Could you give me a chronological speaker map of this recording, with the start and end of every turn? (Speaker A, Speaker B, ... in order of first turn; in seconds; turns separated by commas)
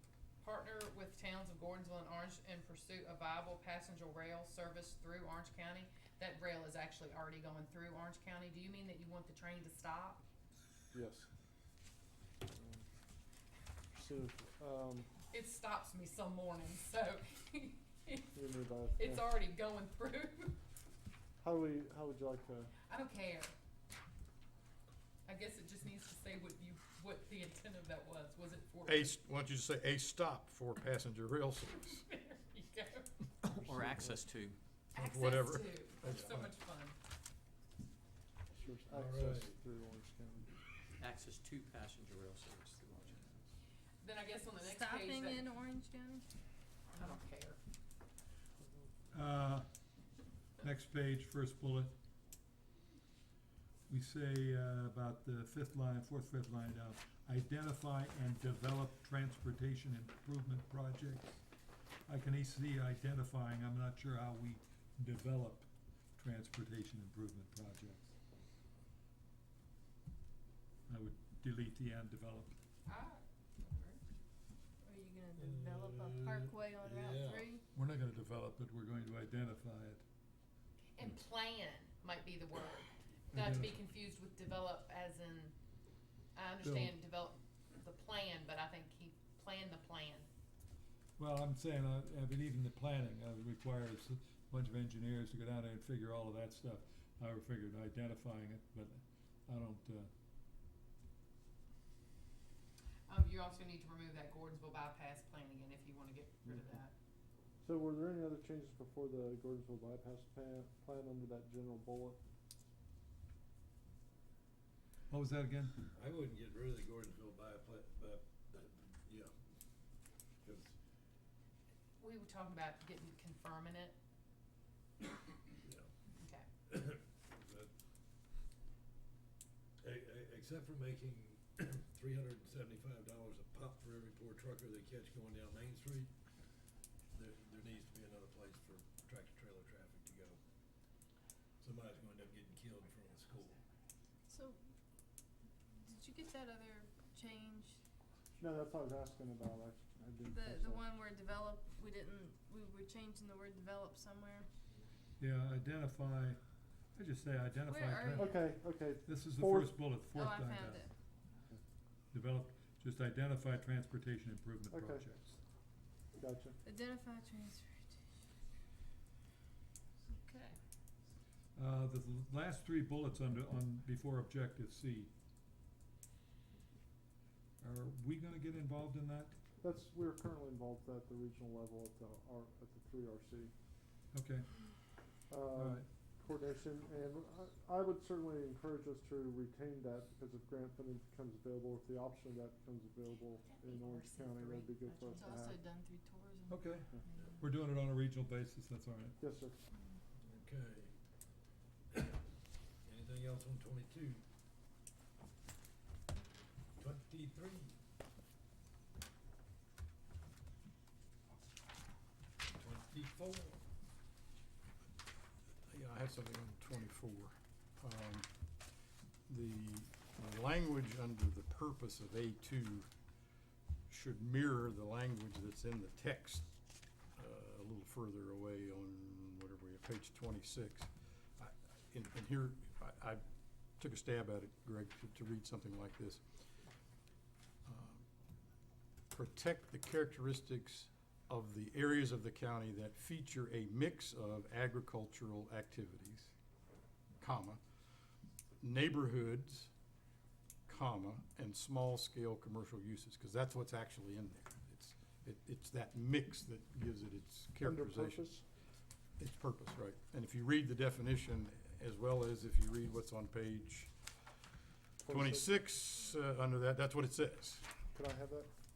Speaker A: 0.4-10.2, Speaker B: 10.9-11.3, Speaker B: 12.5-12.8, Speaker B: 13.9-15.1, Speaker A: 15.3-18.4, Speaker B: 18.3-19.2, Speaker A: 18.9-20.6, Speaker B: 21.4-22.7, Speaker A: 22.9-23.5, Speaker A: 25.2-29.2, Speaker C: 28.8-32.0, Speaker A: 31.7-33.1, Speaker D: 33.4-34.6, Speaker B: 33.7-34.1, Speaker C: 34.9-36.2, Speaker A: 34.9-36.9, Speaker E: 36.0-36.5, Speaker B: 38.5-40.5, Speaker E: 38.9-39.6, Speaker D: 41.0-43.4, Speaker A: 44.0-45.5, Speaker F: 44.6-46.2, Speaker A: 46.9-47.6, Speaker G: 49.1-49.6, Speaker G: 50.6-51.9, Speaker G: 53.9-61.4, Speaker G: 62.1-68.1, Speaker G: 70.9-72.5, Speaker A: 72.8-74.0, Speaker F: 74.8-77.6, Speaker E: 75.3-77.6, Speaker G: 77.7-80.0, Speaker A: 80.9-85.5, Speaker G: 83.3-83.8, Speaker A: 86.3-90.3, Speaker G: 86.6-86.9, Speaker G: 91.2-100.1, Speaker A: 103.1-106.9, Speaker B: 107.6-112.2, Speaker G: 115.1-115.8, Speaker E: 115.9-119.3, Speaker E: 120.4-120.7, Speaker A: 122.0-124.0, Speaker E: 125.6-125.9, Speaker A: 126.1-126.5, Speaker E: 126.7-127.7, Speaker E: 129.8-136.1, Speaker E: 137.1-140.4, Speaker E: 141.6-143.6, Speaker F: 144.3-144.6, Speaker F: 145.8-147.8, Speaker B: 148.4-150.8, Speaker F: 150.3-154.5, Speaker G: 155.2-156.4, Speaker G: 156.9-158.5, Speaker F: 157.7-158.5, Speaker B: 158.2-159.9, Speaker G: 159.0-160.9, Speaker F: 160.1-160.9, Speaker G: 162.1-165.4, Speaker B: 164.7-165.1, Speaker B: 166.2-166.6, Speaker F: 166.6-167.9, Speaker F: 170.1-170.6, Speaker G: 171.5-175.1, Speaker G: 177.6-179.3, Speaker B: 179.6-183.5, Speaker G: 184.1-184.5, Speaker B: 185.3-195.6, Speaker G: 185.5-185.8, Speaker A: 193.0-195.4, Speaker F: 195.1-196.7, Speaker G: 196.5-199.2, Speaker B: 199.2-199.6, Speaker E: 200.2-200.9, Speaker E: 201.9-202.2, Speaker E: 202.8-204.2, Speaker E: 206.8-207.7, Speaker E: 212.5-213.6, Speaker C: 215.7-218.3, Speaker C: 219.3-222.9, Speaker C: 223.9-226.4, Speaker C: 227.2-233.2, Speaker C: 233.8-236.2, Speaker C: 237.7-238.0, Speaker C: 239.1-246.3, Speaker C: 247.2-247.6, Speaker C: 248.6-249.7, Speaker C: 250.7-258.3, Speaker B: 257.6-258.4, Speaker C: 259.2-263.9, Speaker B: 265.0-265.7, Speaker C: 265.1-267.7, Speaker B: 267.9-268.5